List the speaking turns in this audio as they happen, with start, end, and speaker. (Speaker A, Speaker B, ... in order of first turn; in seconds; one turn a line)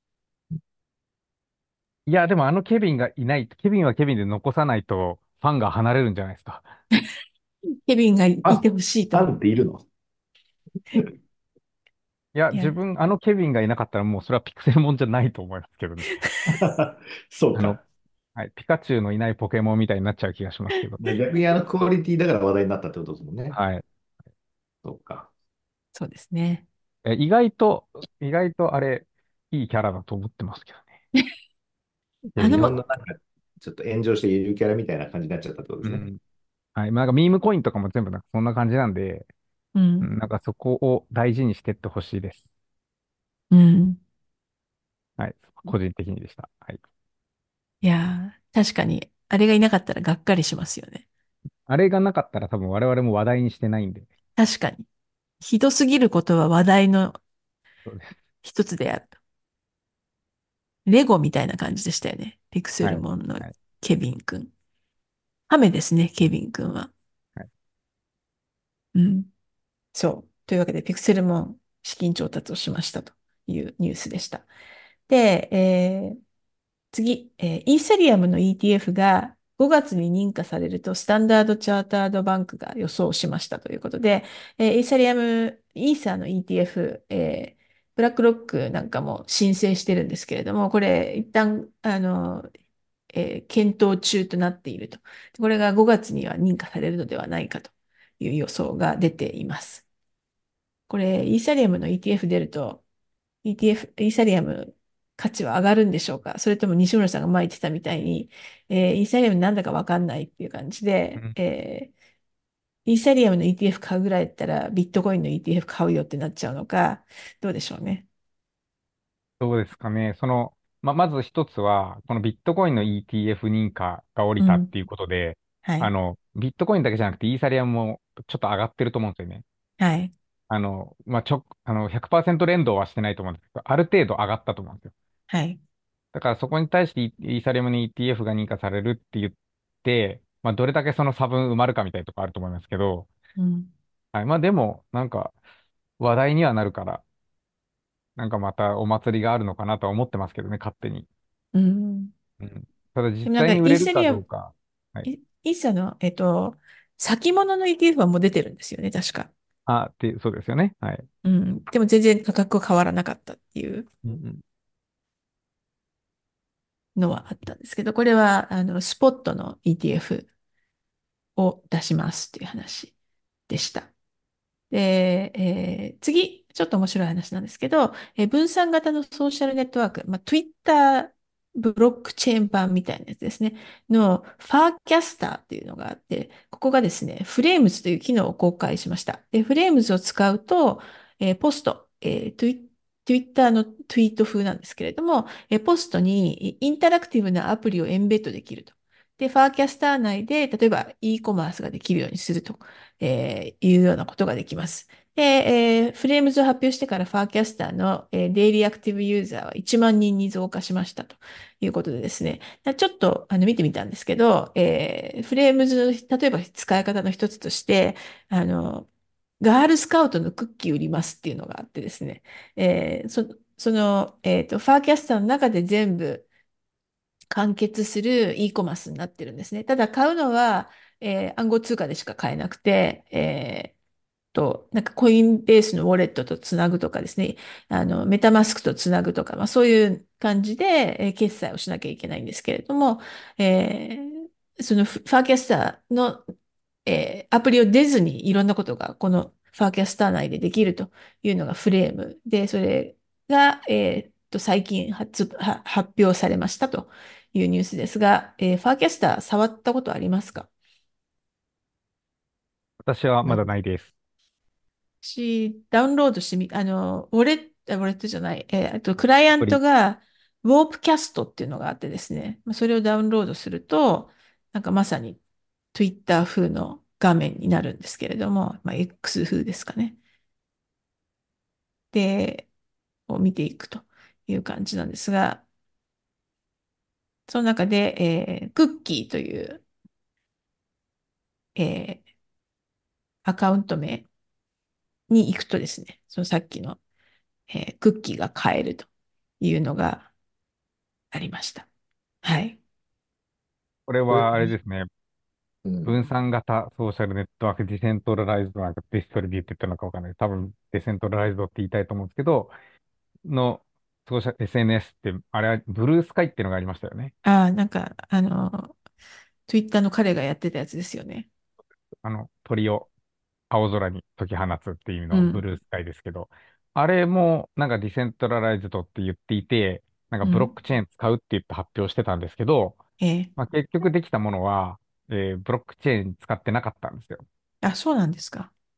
Speaker A: 2.1-6.7
Speaker B: 7.9-9.3
Speaker C: 8.4-9.9
Speaker A: 12.3-16.2
Speaker B: 16.1-16.5
Speaker C: 16.5-17.8
Speaker A: 18.4-21.1
Speaker C: 21.0-23.6
Speaker A: 23.5-23.8
Speaker C: 24.8-25.3
Speaker B: 25.9-26.7
Speaker A: 27.1-30.9
Speaker A: 32.4-32.8
Speaker B: 32.4-32.8
Speaker C: 32.4-36.0
Speaker A: 35.8-36.2
Speaker A: 36.8-39.3
Speaker B: 39.8-40.1
Speaker A: 40.0-42.4
Speaker B: 43.5-44.0
Speaker A: 45.2-46.8
Speaker B: 47.8-51.0
Speaker A: 51.7-54.1
Speaker B: 54.4-54.9
Speaker B: 55.4-57.2
Speaker A: 57.9-58.2
Speaker B: 58.4-59.1
Speaker B: 60.9-64.5
Speaker A: 62.8-63.5
Speaker B: 65.5-66.9
Speaker B: 68.9-69.3
Speaker B: 69.9-74.5
Speaker B: 75.1-76.2
Speaker B: 76.9-92.5
Speaker B: 93.1-99.8
Speaker B: 100.9-102.8
Speaker B: 103.4-111.9
Speaker B: 112.9-118.0
Speaker A: 119.4-129.4
Speaker B: 124.4-124.7
Speaker B: 125.6-125.9
Speaker B: 129.8-130.1
Speaker A: 130.5-134.9
Speaker B: 135.3-135.6
Speaker A: 136.1-143.1
Speaker B: 143.4-143.7
Speaker A: 144.1-145.3
Speaker A: 146.0-147.0
Speaker A: 148.2-151.1
Speaker B: 151.5-152.1
Speaker A: 152.4-155.1
Speaker B: 153.2-154.2
Speaker B: 155.1-159.3
Speaker A: 159.7-161.1
Speaker B: 161.2-163.9
Speaker A: 164.0-164.4
Speaker B: 167.0-170.3
Speaker B: 171.4-172.9
Speaker B: 173.5-173.9
Speaker B: 174.7-218.9
Speaker B: 219.4-226.3
Speaker B: 227.3-233.8
Speaker B: 234.3-246.2
Speaker B: 246.9-260.5
Speaker A: 262.8-263.9
Speaker C: 263.2-263.5
Speaker B: 265.0-275.2
Speaker B: 275.7-280.0
Speaker B: 281.9-282.5
Speaker B: 283.1-285.4
Speaker B: 287.3-289.6
Speaker B: 291.6-292.0
Speaker B: 293.2-294.1
Speaker B: 295.1-296.8
Speaker B: 297.5-298.9
Speaker B: 299.4-300.1
Speaker B: 301.1-301.7
Speaker B: 302.2-302.6
Speaker A: 303.9-304.9
Speaker C: 304.1-304.5
Speaker C: 305.6-306.0
Speaker A: 305.9-312.5
Speaker A: 313.2-317.1
Speaker B: 317.2-318.8
Speaker B: 319.5-321.3
Speaker A: 322.0-322.9
Speaker A: 323.5-332.8
Speaker B: 325.1-325.4
Speaker B: 330.2-330.5
Speaker B: 333.0-333.3
Speaker A: 333.4-337.2
Speaker B: 337.6-338.5